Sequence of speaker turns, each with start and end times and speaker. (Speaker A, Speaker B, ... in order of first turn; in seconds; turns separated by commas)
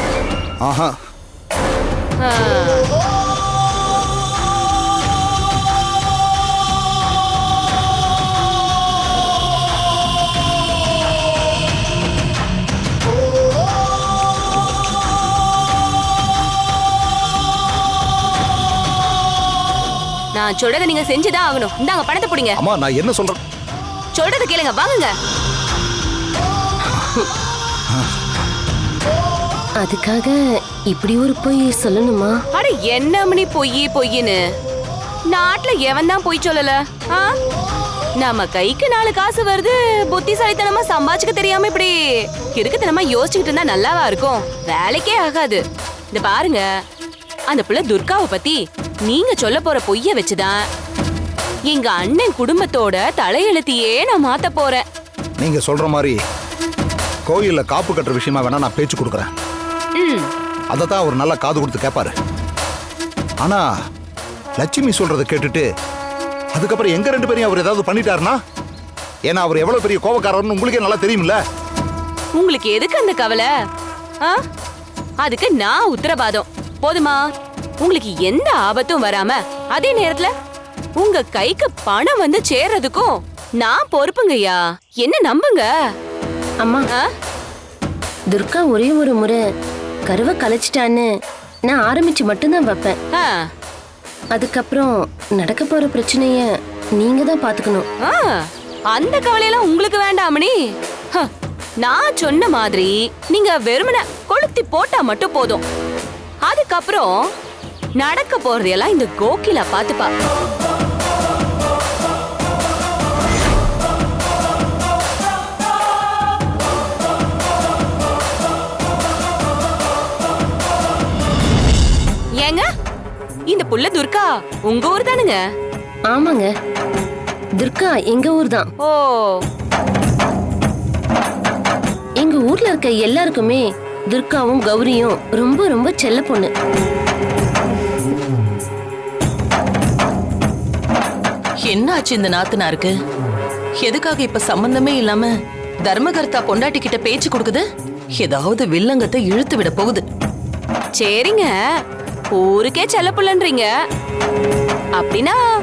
Speaker A: 0.6-0.9, Speaker B: 2.2-2.8, Speaker B: 20.3-22.6, Speaker A: 22.6-23.4, Speaker B: 24.1-25.1, Speaker C: 29.8-30.4, Speaker C: 30.9-32.4, Speaker B: 32.5-34.4, Speaker B: 35.3-37.3, Speaker B: 38.2-45.6, Speaker B: 46.1-46.6, Speaker B: 47.5-50.6, Speaker B: 51.7-54.8, Speaker A: 55.4-56.2, Speaker A: 57.3-59.3, Speaker B: 60.0-60.3, Speaker A: 60.7-62.1, Speaker A: 64.6-65.7, Speaker A: 66.5-68.4, Speaker A: 69.2-71.4, Speaker B: 72.4-73.5, Speaker B: 75.2-77.2, Speaker B: 77.8-80.3, Speaker B: 81.0-85.7, Speaker C: 86.6-86.9, Speaker C: 88.3-89.4, Speaker C: 90.1-91.1, Speaker C: 91.7-93.0, Speaker B: 93.1-93.4, Speaker C: 94.3-97.8, Speaker B: 98.0-100.5, Speaker B: 101.8-105.6, Speaker B: 106.4-107.1, Speaker B: 108.0-110.1, Speaker B: 122.4-122.7, Speaker B: 123.5-125.4, Speaker C: 126.1-126.5, Speaker C: 127.6-128.7, Speaker B: 128.8-129.4, Speaker C: 132.2-136.5, Speaker D: 141.6-142.9, Speaker D: 143.8-145.3, Speaker D: 145.8-147.6, Speaker D: 148.2-150.0, Speaker B: 151.0-151.5, Speaker B: 152.3-153.7, Speaker B: 155.0-155.3